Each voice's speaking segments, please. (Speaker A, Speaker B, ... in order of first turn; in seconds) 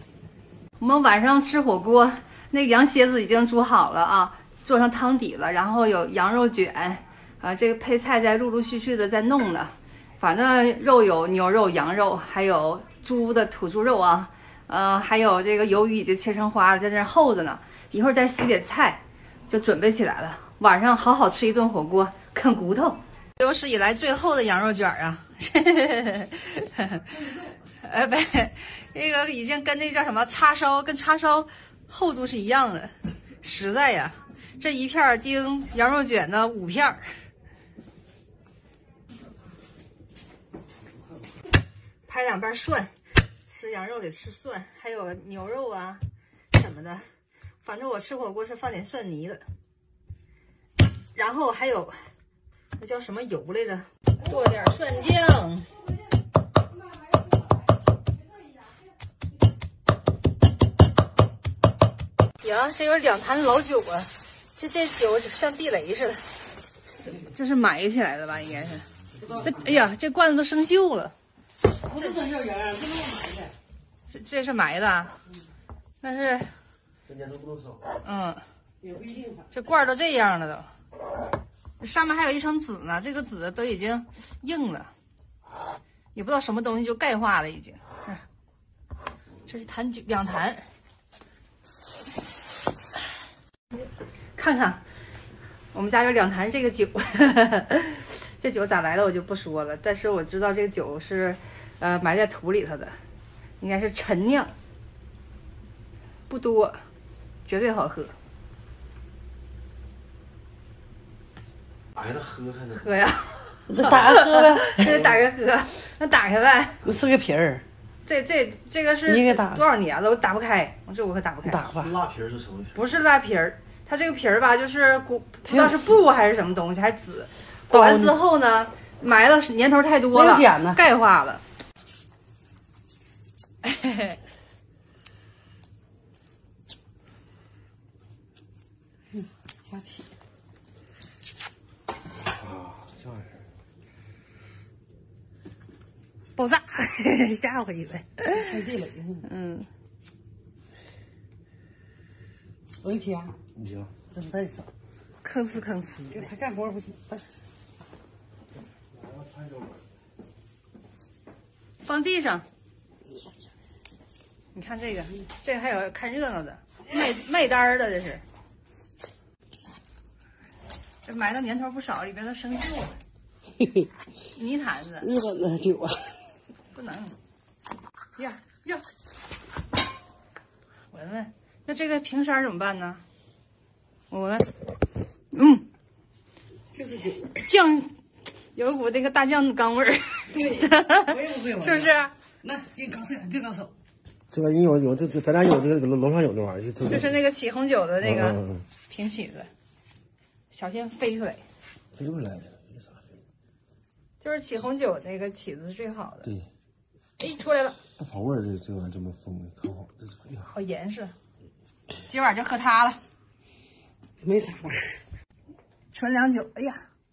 Speaker A: 0.8-27.1, 27.8-37.2, 42.1-42.9, 43.5-46.0, 46.5-47.1, 47.6-49.4, 51.1-52.1, 52.8-55.7, 62.4-66.3, 67.0-68.9, 69.4-71.1, 74.1-75.1, 76.0-76.5, 78.0-78.4, 79.5-80.7, 81.8-84.9, 86.1-88.2, 89.5-90.7, 94.3-94.8, 95.7-103.0, 103.6-104.5, 106.3-106.8, 107.5-108.1, 112.7-116.8, 118.0-121.7, 122.7-131.4, 133.6-134.2, 146.3-148.4, 149.2-149.7, 155.2-156.3, 161.8-162.4, 164.5-168.2, 171.0-173.0, 174.3-175.1, 176.7-177.2, 178.2-178.8, 180.9-183.0, 184.1-184.4, 185.3-185.7, 187.3-187.9, 188.5-192.1, 196.8-199.5, 200.5-201.4, 204.2-206.3, 207.2-207.8, 210.5-211.1, 212.1-213.0, 215.9-216.8
Speaker B: 27.1-27.5, 69.2-69.7, 71.8-73.5, 78.8-79.5, 113.7-115.0, 116.8-117.6, 119.1-119.6, 121.5-122.0, 125.5-126.0, 127.7-128.2, 130.1-130.8, 139.1-140.0, 148.3-149.2, 152.8-153.3, 154.1-154.7, 156.1-157.3, 173.6-173.9, 175.0-176.2, 186.7-187.3, 190.3-193.7, 214.2-215.0
Speaker C: 77.0-77.8, 111.9-112.8, 121.7-122.8, 142.3-143.4, 153.6-153.9, 158.9-159.8, 194.3-197.0, 201.9-202.8, 208.0-210.5